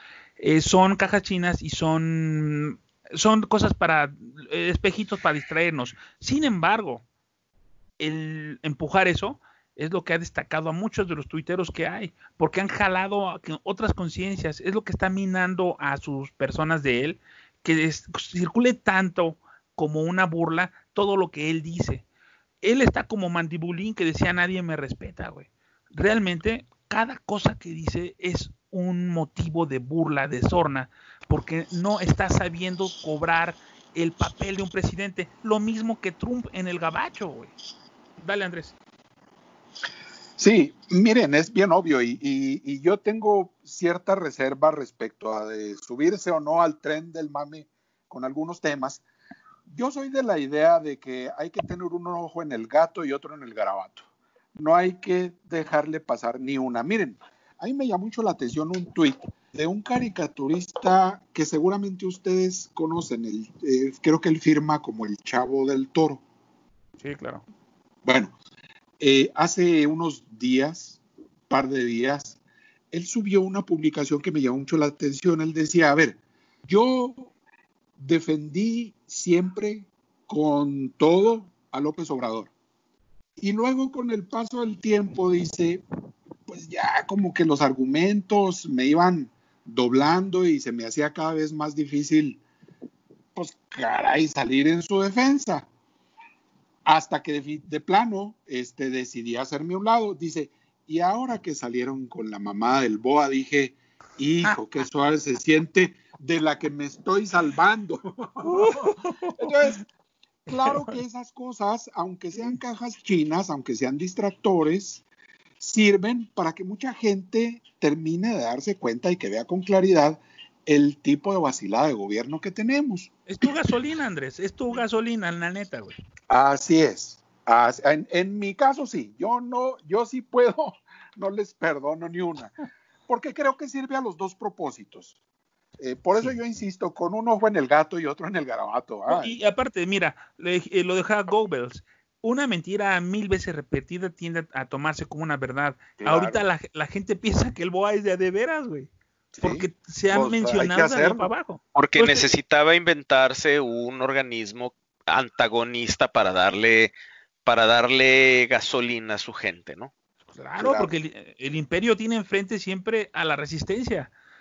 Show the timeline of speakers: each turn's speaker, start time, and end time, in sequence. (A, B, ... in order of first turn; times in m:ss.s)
0:00.4-0:07.0 A
0:08.0-0:22.0 A
0:22.6-0:37.5 A
0:38.2-0:38.8 A
0:40.4-0:49.0 B
0:49.7-1:06.2 B
1:07.0-1:07.4 A
1:08.0-1:08.3 B
1:09.0-1:12.4 B
1:12.9-1:17.3 B
1:18.0-1:22.5 B
1:23.4-1:25.8 B
1:26.5-1:32.4 B
1:33.3-1:35.7 B
1:36.8-1:49.8 B
1:48.4-1:49.8 A
1:50.5-1:51.0 A
1:50.5-1:55.0 B
1:55.6-2:03.1 B
2:03.3-2:06.0 A
2:06.3-2:12.5 B
2:13.1-2:15.1 B
2:15.8-2:19.3 B
2:19.1-2:28.9 A
2:26.0-2:26.4 B
2:29.3-2:31.3 B
2:29.4-2:32.3 A
2:31.7-2:36.9 C
2:37.4-2:39.9 C
2:40.3-2:44.1 A
2:40.6-2:40.9 B